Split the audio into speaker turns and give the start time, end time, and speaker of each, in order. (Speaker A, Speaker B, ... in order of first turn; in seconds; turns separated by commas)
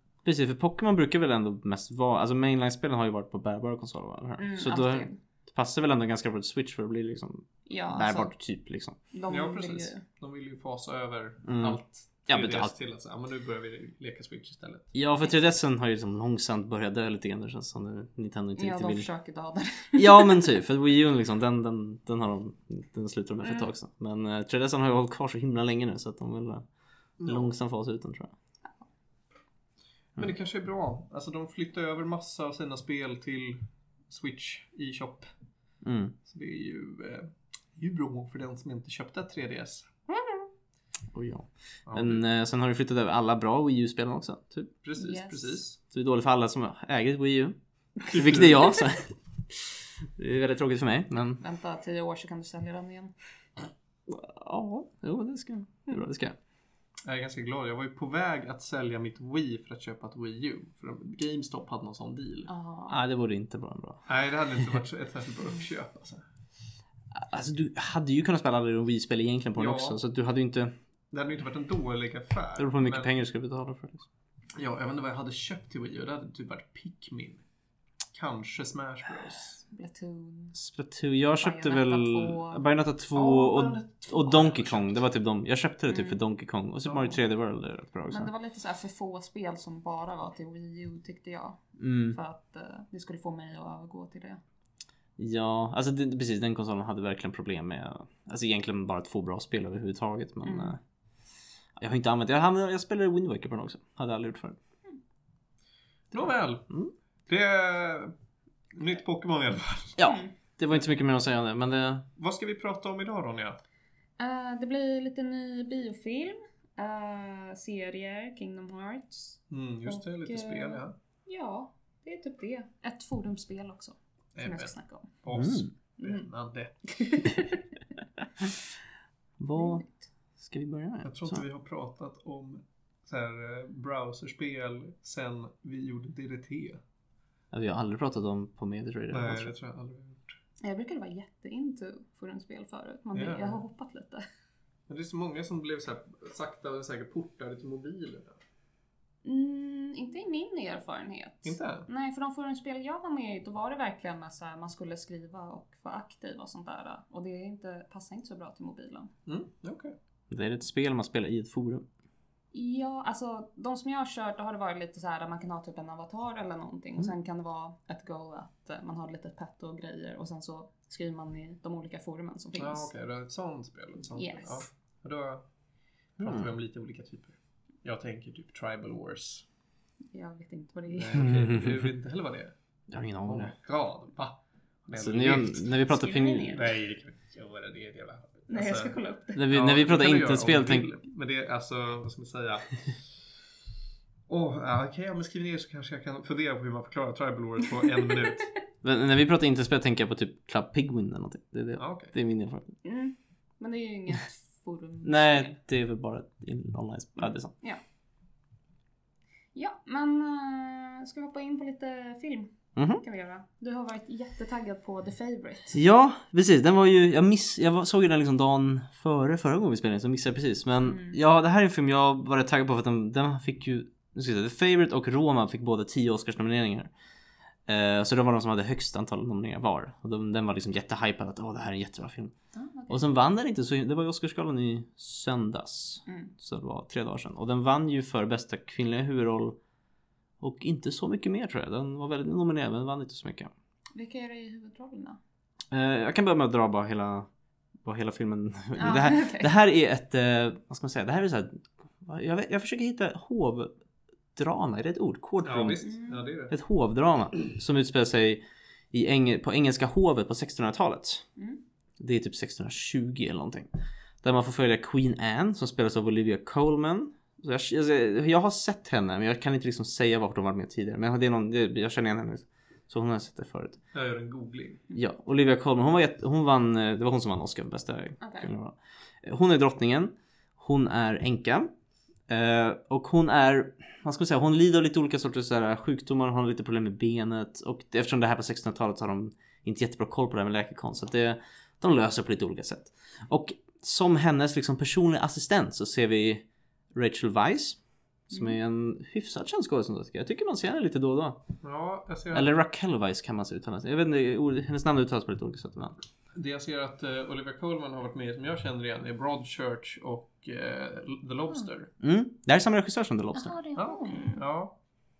Speaker A: 0.2-8.9, Speaker B: 4.4-5.2, Speaker B: 7.7-8.3, Speaker B: 9.1-10.0, Speaker C: 9.3-14.9, Speaker A: 11.4-12.7, Speaker A: 14.9-19.1, Speaker B: 18.6-20.5, Speaker A: 19.9-26.6, Speaker C: 27.2-27.5, Speaker A: 27.2-28.3, Speaker C: 30.2-35.3, Speaker A: 35.8-36.1, Speaker C: 36.2-39.9, Speaker A: 41.1-44.7, Speaker C: 41.9-42.2, Speaker C: 44.8-45.8, Speaker B: 45.0-45.6, Speaker A: 45.9-47.5, Speaker A: 48.1-51.4, Speaker C: 48.1-48.7, Speaker B: 51.4-53.1, Speaker A: 54.1-56.4, Speaker C: 57.0-62.5, Speaker B: 62.5-63.0, Speaker A: 62.9-64.0, Speaker C: 64.1-66.2, Speaker A: 67.1-70.7, Speaker C: 69.5-70.0, Speaker C: 71.1-73.1, Speaker A: 72.6-74.0, Speaker C: 74.5-77.4, Speaker C: 78.1-79.6, Speaker B: 79.7-80.5, Speaker A: 80.5-88.3, Speaker B: 81.4-82.6, Speaker C: 83.1-85.0, Speaker B: 85.9-86.2, Speaker C: 86.8-87.2, Speaker B: 88.1-94.4, Speaker A: 91.8-92.2, Speaker A: 95.2-100.8, Speaker B: 100.4-100.8, Speaker A: 101.8-104.6, Speaker C: 106.1-106.7, Speaker C: 107.3-108.1, Speaker C: 108.7-110.0, Speaker A: 110.0-112.0, Speaker B: 110.0-110.3, Speaker C: 112.2-113.6, Speaker B: 114.2-125.1, Speaker C: 119.5-120.9, Speaker C: 124.3-126.8, Speaker A: 125.3-125.7, Speaker B: 126.0-126.2, Speaker B: 126.9-127.7, Speaker A: 129.4-129.8, Speaker B: 129.5-130.0, Speaker A: 130.4-131.4, Speaker C: 131.0-136.8, Speaker A: 137.5-139.5, Speaker C: 139.1-140.3, Speaker B: 140.6-144.2, Speaker C: 143.1-143.6, Speaker C: 144.9-148.4, Speaker B: 149.2-159.1, Speaker C: 151.4-151.9, Speaker C: 159.2-159.9, Speaker A: 160.3-161.8, Speaker B: 162.5-172.9, Speaker C: 172.6-175.4, Speaker B: 174.1-174.6, Speaker C: 176.2-179.4, Speaker A: 176.2-176.5, Speaker B: 180.1-181.2, Speaker C: 180.9-182.5, Speaker A: 181.1-181.8, Speaker A: 182.9-183.5, Speaker C: 183.2-185.7, Speaker A: 184.9-186.6, Speaker B: 185.7-186.7, Speaker C: 186.5-188.9, Speaker B: 188.5-189.4, Speaker A: 189.3-190.9, Speaker C: 189.5-193.0, Speaker C: 194.3-198.5, Speaker B: 197.8-198.4, Speaker A: 198.8-202.8, Speaker C: 201.8-202.1, Speaker B: 202.8-205.6, Speaker A: 205.0-207.5, Speaker B: 209.5-215.7, Speaker A: 212.8-213.0, Speaker A: 215.7-226.9, Speaker B: 220.8-221.2, Speaker A: 227.7-232.3, Speaker B: 232.5-233.0, Speaker A: 232.9-239.6, Speaker B: 236.1-236.3, Speaker A: 240.4-243.5, Speaker B: 243.9-245.2, Speaker A: 245.7-247.3, Speaker A: 247.8-253.7, Speaker B: 248.8-249.5, Speaker A: 254.3-255.8, Speaker C: 255.4-256.5, Speaker B: 255.8-256.2, Speaker A: 256.5-261.2, Speaker A: 262.0-263.7, Speaker A: 264.2-273.8, Speaker C: 273.9-274.8, Speaker A: 274.9-281.7, Speaker B: 278.2-278.5, Speaker A: 282.3-297.8, Speaker A: 298.3-301.4, Speaker C: 301.6-302.5, Speaker A: 302.3-305.9, Speaker C: 306.3-311.9, Speaker A: 312.0-313.6, Speaker B: 313.3-314.4, Speaker C: 313.8-314.7